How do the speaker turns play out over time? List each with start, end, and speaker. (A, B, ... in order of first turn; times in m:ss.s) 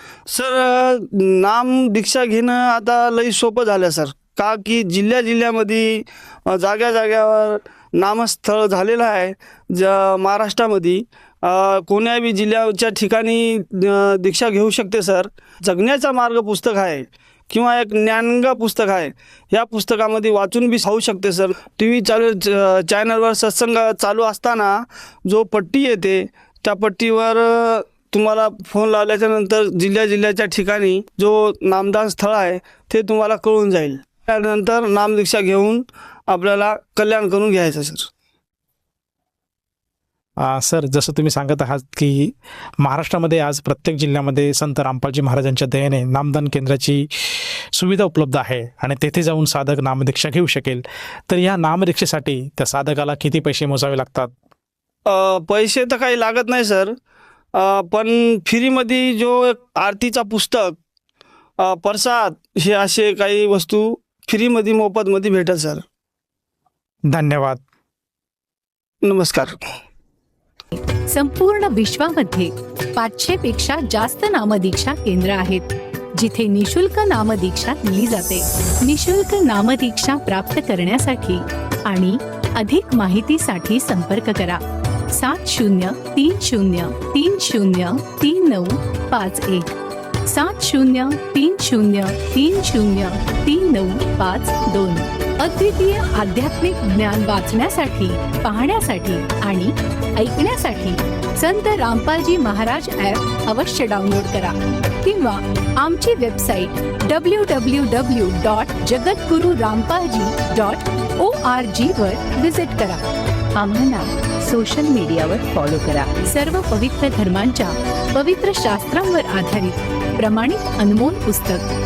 0:00.3-0:38.1 A
0:40.4-0:54.3 B
0:55.0-0:56.9 A
0:57.5-1:00.7 A
1:01.6-1:05.8 A
1:07.1-1:07.6 B
1:09.0-1:09.6 A
1:11.1-1:24.6 C
1:25.1-1:29.7 C
1:30.2-1:53.0 C
1:53.5-2:01.6 C